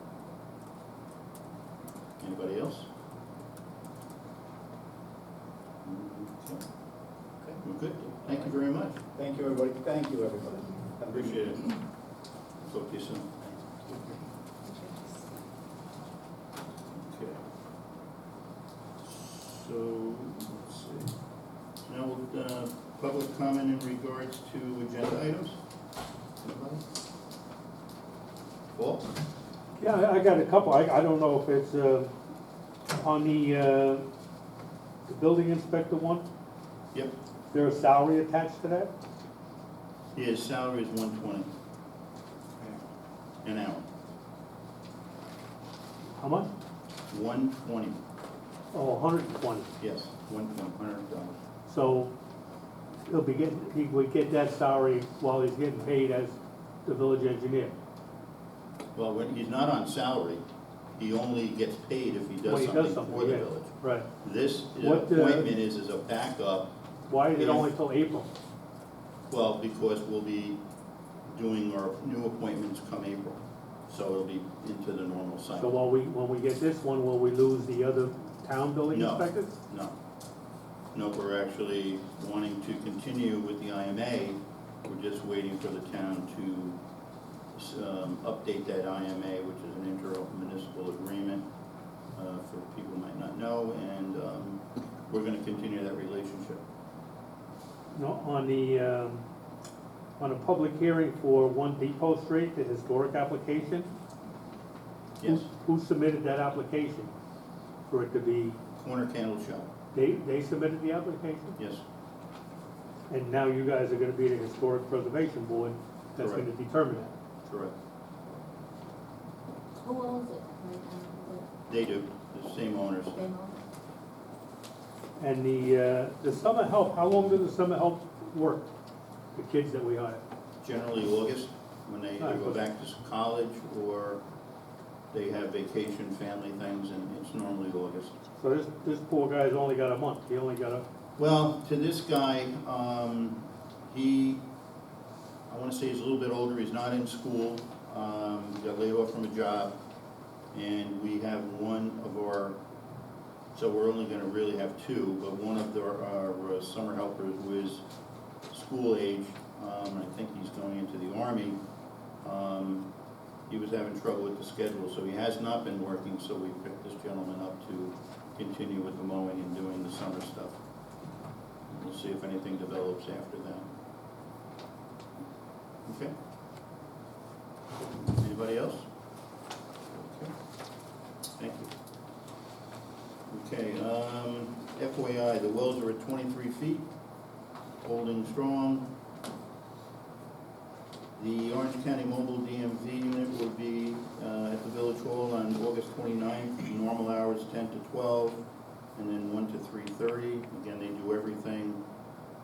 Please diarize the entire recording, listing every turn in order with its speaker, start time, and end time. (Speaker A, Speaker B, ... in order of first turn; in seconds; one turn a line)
Speaker A: 2.2-2.9
Speaker A: 5.8-6.6
Speaker A: 7.6-9.0
Speaker B: 9.1-11.6
Speaker A: 11.1-11.7
Speaker A: 12.6-13.5
Speaker B: 13.7-14.2
Speaker C: 14.7-15.3
Speaker A: 16.9-17.4
Speaker A: 19.0-21.1
Speaker A: 21.8-25.6
Speaker A: 26.4-26.8
Speaker A: 28.7-29.1
Speaker D: 29.8-32.1
Speaker D: 32.9-34.0
Speaker D: 35.1-36.2
Speaker D: 37.5-38.9
Speaker A: 40.1-41.5
Speaker A: 43.4-43.9
Speaker D: 46.2-46.5
Speaker A: 47.1-48.0
Speaker D: 48.7-49.7
Speaker A: 49.8-51.4
Speaker D: 51.7-52.1
Speaker D: 53.1-57.8
Speaker A: 59.0-60.4
Speaker A: 61.0-66.7
Speaker D: 62.5-64.1
Speaker D: 64.8-65.5
Speaker D: 67.1-68.3
Speaker A: 67.3-67.7
Speaker A: 69.3-70.6
Speaker A: 71.3-75.8
Speaker D: 75.6-79.5
Speaker A: 78.9-80.0
Speaker A: 80.9-86.8
Speaker A: 87.5-91.5
Speaker A: 92.2-96.6
Speaker D: 97.9-99.2
Speaker D: 100.2-103.9
Speaker A: 105.2-105.5
Speaker D: 105.2-107.1
Speaker D: 107.9-108.6
Speaker A: 108.8-109.7
Speaker D: 109.9-111.6
Speaker A: 111.6-111.8
Speaker D: 113.1-117.1
Speaker A: 116.2-116.5
Speaker A: 117.5-117.8
Speaker C: 119.8-121.5
Speaker A: 121.7-123.2
Speaker C: 123.2-123.6
Speaker D: 125.2-128.7
Speaker D: 129.4-130.2
Speaker A: 130.6-134.2
Speaker D: 132.2-132.6
Speaker A: 135.1-138.1
Speaker D: 138.4-140.8
Speaker A: 141.2-144.4
Speaker A: 145.5-149.7
Speaker A: 150.5-152.6
Speaker A: 153.5-157.8
Speaker A: 158.5-161.6
Speaker A: 162.2-162.9
Speaker A: 163.5-170.6
Speaker A: 171.7-173.7
Speaker A: 175.9-176.1
Speaker A: 178.0-178.9
Speaker A: 179.9-180.3
Speaker A: 181.4-181.7
Speaker A: 183.3-186.9
Speaker A: 187.8-188.9
Speaker A: 191.2-201.8